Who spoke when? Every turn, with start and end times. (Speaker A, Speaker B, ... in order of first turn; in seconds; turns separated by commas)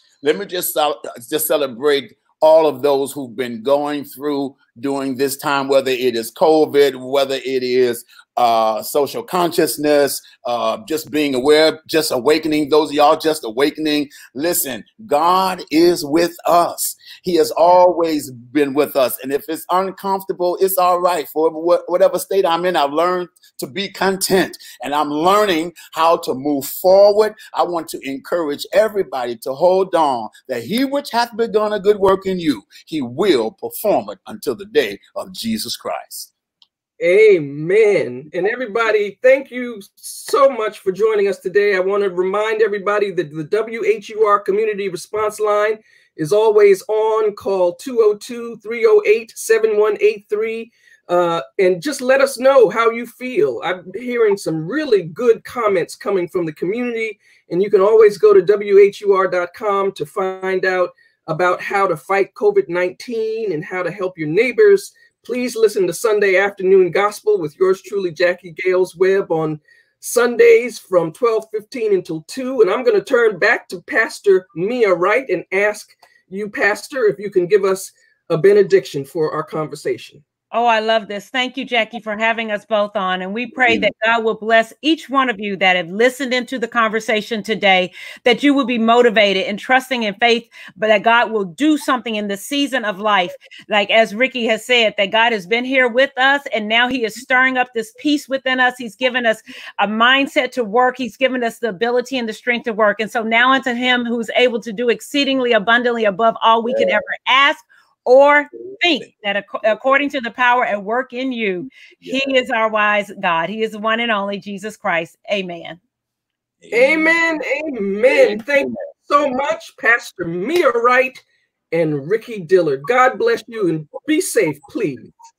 Speaker A: 0.2-36.3, Speaker B: 37.0-80.2, Speaker C: 80.5-115.8, Speaker A: 83.6-83.9, Speaker A: 106.7-107.0, Speaker A: 112.0-112.4, Speaker A: 116.6-117.2, Speaker B: 116.7-125.1, Speaker A: 118.1-118.8